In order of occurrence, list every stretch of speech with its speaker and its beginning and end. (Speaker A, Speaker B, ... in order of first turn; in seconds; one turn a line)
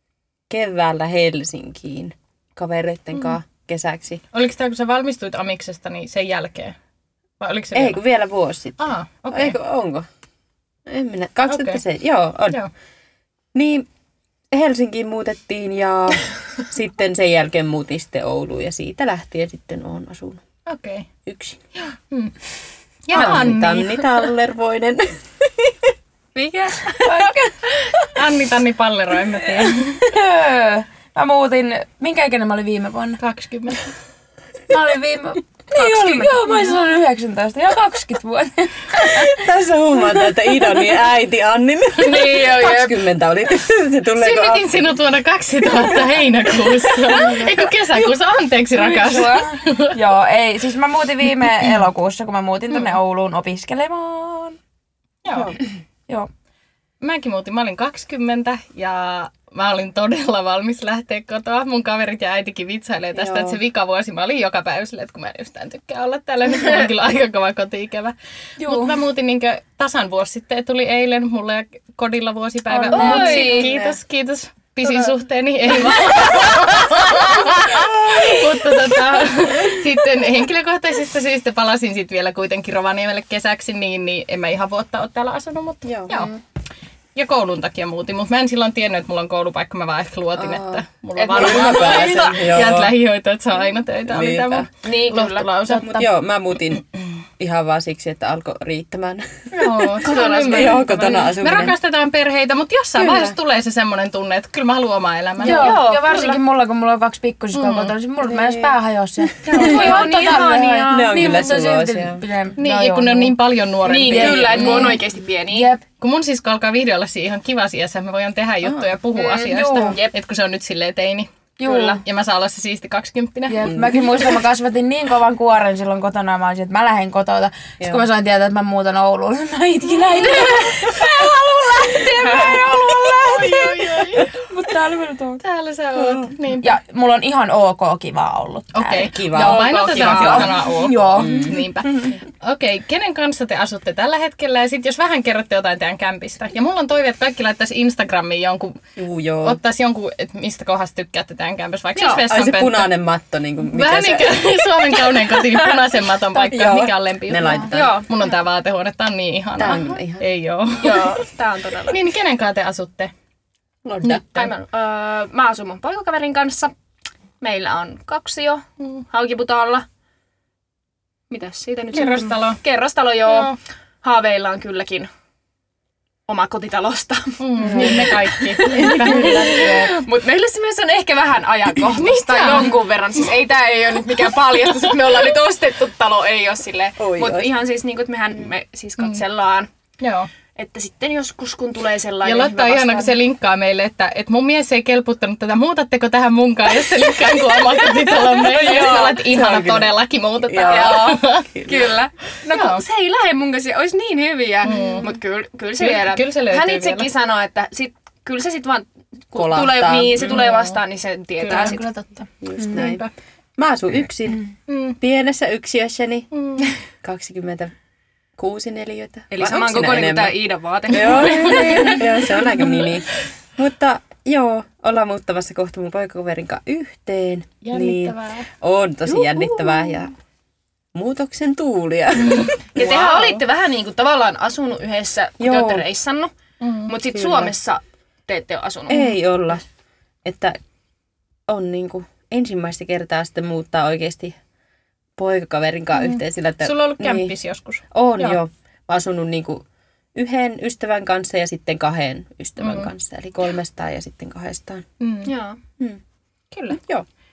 Speaker A: 0.5-4.2
Speaker B: 4.3-6.8
Speaker B: 7.4-8.0
Speaker A: 7.7-10.1
Speaker B: 8.8-9.6
Speaker A: 10.9-12.6
Speaker B: 11.5-11.8
Speaker A: 13.5-13.9
Speaker A: 14.5-20.4
Speaker B: 20.7-21.1
Speaker A: 21.3-21.6
Speaker B: 23.1-24.2
Speaker A: 23.1-25.9
Speaker C: 26.4-28.1
Speaker B: 28.1-30.0
Speaker C: 29.7-33.2
Speaker B: 33.2-33.9
Speaker C: 34.7-39.5
Speaker A: 35.7-36.4
Speaker A: 38.9-44.9
Speaker C: 40.0-40.9
Speaker C: 42.0-43.0
Speaker B: 44.2-49.9
Speaker C: 47.1-47.5
Speaker C: 48.8-54.6
Speaker B: 55.2-55.6
Speaker A: 55.3-55.6
Speaker B: 57.0-86.3
Speaker A: 63.1-63.6
Speaker C: 68.6-69.0
Speaker C: 72.7-73.8
Speaker D: 72.9-73.7
Speaker A: 73.5-74.0
Speaker A: 77.7-78.4
Speaker A: 85.8-86.2
Speaker D: 86.1-86.4
Speaker B: 87.2-96.0
Speaker A: 90.4-92.9
Speaker D: 91.2-92.4
Speaker A: 94.1-94.7
Speaker D: 94.8-95.5
Speaker C: 95.7-96.1
Speaker A: 95.7-96.8
Speaker A: 97.4-101.8
Speaker B: 99.5-105.8
Speaker D: 100.1-100.8
Speaker A: 103.0-103.4
Speaker C: 105.4-113.4
Speaker D: 105.4-106.4
Speaker B: 107.5-107.9
Speaker A: 108.2-108.8
Speaker A: 109.5-110.0
Speaker D: 109.5-111.7
Speaker A: 110.9-112.2
Speaker B: 112.6-115.0
Speaker D: 113.8-115.7
Speaker C: 113.9-115.8
Speaker B: 116.0-121.3
Speaker D: 119.2-120.2
Speaker C: 119.3-120.0
Speaker D: 121.6-122.0
Speaker C: 121.6-122.0
Speaker B: 121.8-123.7
Speaker C: 123.5-135.4
Speaker A: 123.6-124.3
Speaker A: 127.8-128.1
Speaker B: 130.2-130.6
Speaker A: 130.6-131.0
Speaker B: 131.9-134.3
Speaker B: 135.4-136.7
Speaker A: 136.0-136.3
Speaker C: 136.6-139.1
Speaker B: 138.7-148.8
Speaker A: 139.1-141.6
Speaker D: 139.3-140.9
Speaker C: 140.3-142.2
Speaker A: 149.0-149.6
Speaker B: 149.4-152.9
Speaker D: 152.0-152.2
Speaker A: 152.2-154.5
Speaker B: 153.7-161.2
Speaker A: 156.3-158.1
Speaker D: 157.7-158.4
Speaker A: 159.6-160.3
Speaker D: 160.8-162.0
Speaker B: 161.9-163.1
Speaker A: 163.8-164.4
Speaker B: 164.0-164.5
Speaker D: 164.3-166.7
Speaker D: 167.4-169.8
Speaker D: 171.3-175.1
Speaker B: 171.9-172.6
Speaker B: 173.3-173.6
Speaker D: 176.3-189.7
Speaker B: 177.4-180.0
Speaker A: 177.6-179.9
Speaker B: 181.9-182.8
Speaker A: 187.0-187.6
Speaker B: 190.0-190.3
Speaker D: 190.6-193.2
Speaker B: 192.2-201.5
Speaker D: 197.9-199.2
Speaker A: 198.5-201.9
Speaker D: 200.6-211.8
Speaker B: 202.5-202.8
Speaker B: 204.6-205.1
Speaker B: 205.8-207.1
Speaker A: 209.3-210.4
Speaker B: 210.2-210.8
Speaker B: 211.4-212.0
Speaker C: 211.5-212.9
Speaker A: 212.4-213.1
Speaker B: 212.7-213.1
Speaker A: 213.6-214.4
Speaker B: 214.7-215.0
Speaker A: 215.0-216.3
Speaker B: 216.3-216.7
Speaker A: 217.0-217.7
Speaker A: 218.4-220.4
Speaker D: 219.3-222.1
Speaker A: 220.9-230.1
Speaker B: 221.0-222.2
Speaker B: 227.6-228.4
Speaker D: 229.1-229.9
Speaker A: 230.9-233.4
Speaker B: 232.2-232.6
Speaker D: 232.7-236.3
Speaker A: 235.4-235.9
Speaker B: 236.6-236.9
Speaker D: 236.9-239.2
Speaker A: 237.1-237.5
Speaker A: 238.9-239.7
Speaker A: 240.2-240.6
Speaker A: 241.5-244.4
Speaker A: 245.2-247.3
Speaker B: 246.6-248.4
Speaker A: 247.9-249.6
Speaker A: 250.2-254.8
Speaker B: 252.6-252.9
Speaker B: 255.0-255.3
Speaker D: 255.2-255.6
Speaker A: 256.7-257.1